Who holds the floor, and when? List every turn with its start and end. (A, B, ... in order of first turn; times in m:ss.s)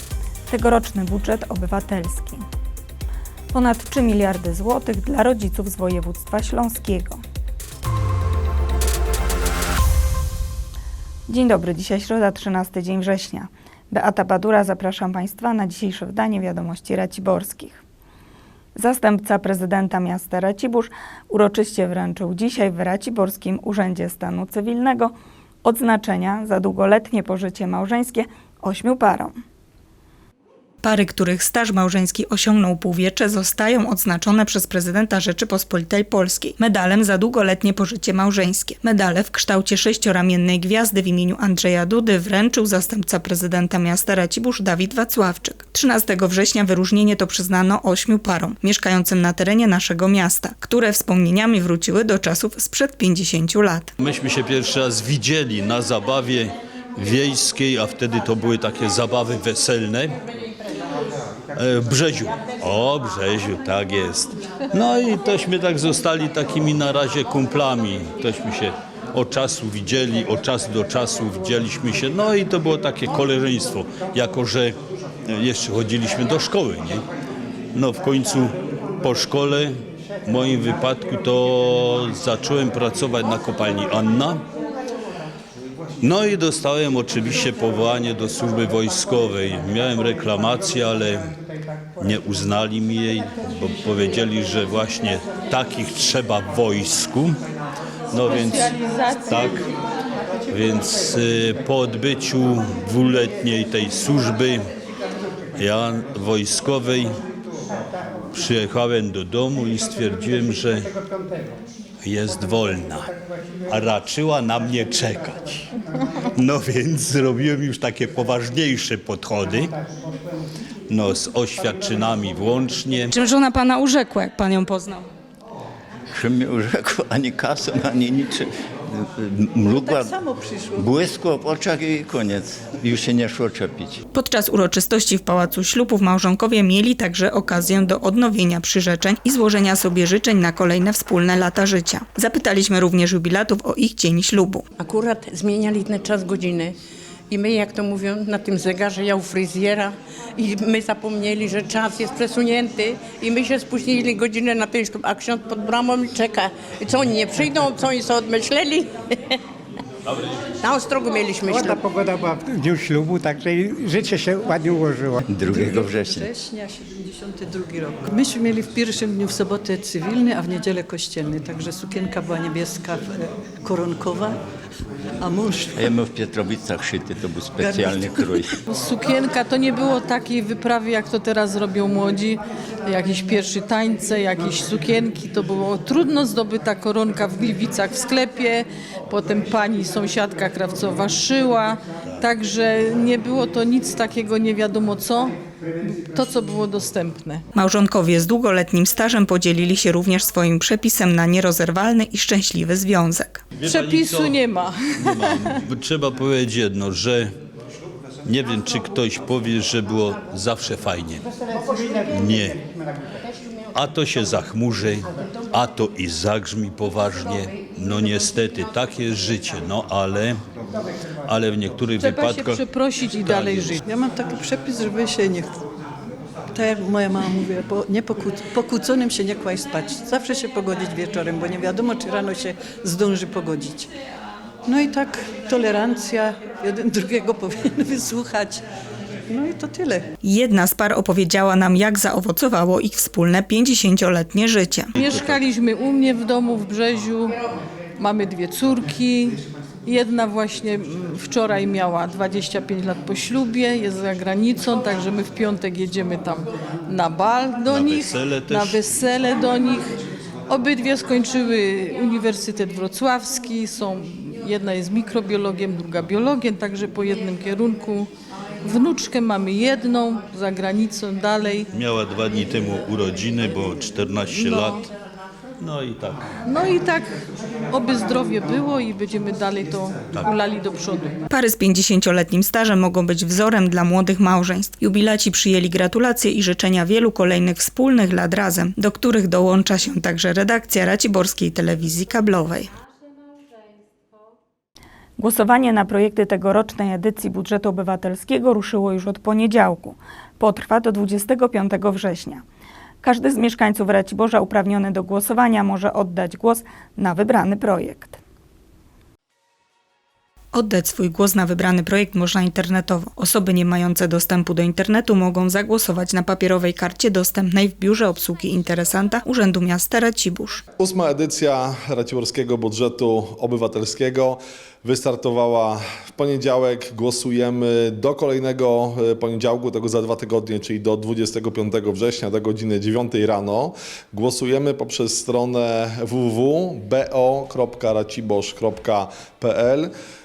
0:00.5-0:02.4 A
0:03.5-0:07.2 A
0:11.3-0:17.8 A
0:18.8-0:29.4 A
0:30.8-0:53.9 A
0:54.0-1:00.2 B
1:01.6-1:17.0 B
1:17.7-1:24.4 B
1:26.0-1:31.4 B
1:32.0-1:37.4 B
1:38.1-1:39.6 B
1:38.2-1:39.6 C
1:40.5-1:44.6 B
1:45.6-1:47.2 B
1:48.3-1:50.9 B
1:52.0-1:53.1 B
1:53.7-1:55.7 B
1:56.3-1:59.8 B
2:00.9-2:03.1 B
2:03.1-2:05.1 A
2:06.1-2:10.2 D
2:09.8-2:10.8 E
2:10.8-2:14.0 D
2:14.1-2:24.7 A
2:24.8-2:26.8 F
2:27.3-2:39.4 F
2:40.6-2:41.8 F
2:41.5-2:45.2 G
2:45.2-2:46.3 D
2:45.5-2:54.4 E
2:55.2-2:55.8 E
2:55.7-2:58.6 D
2:57.6-2:58.2 E
2:58.7-3:17.4 C
3:17.6-3:23.4 A
3:23.6-3:24.4 B
3:23.6-3:25.6 C
3:25.0-3:27.3 B
3:28.3-3:31.2 B
3:32.1-3:32.6 B
3:33.7-3:40.4 B
3:41.3-3:43.8 B
3:42.0-3:43.1 C
3:43.1-3:45.6 E
3:46.5-3:53.9 E
3:54.7-3:58.6 E
3:59.3-4:00.1 E
4:00.2-4:05.0 A
4:05.0-4:07.4 C
4:08.0-4:19.8 C
4:17.7-4:18.8 B
4:20.5-4:28.1 C
4:28.6-4:31.7 C
4:31.7-4:34.9 B
4:34.4-4:34.8 C
4:35.6-4:36.3 B
4:36.5-4:37.1 C
4:37.7-4:41.1 C
4:41.3-4:52.7 A
4:55.2-5:02.4 A
5:03.0-5:08.2 A
5:10.5-5:20.6 A
5:20.8-5:39.9 H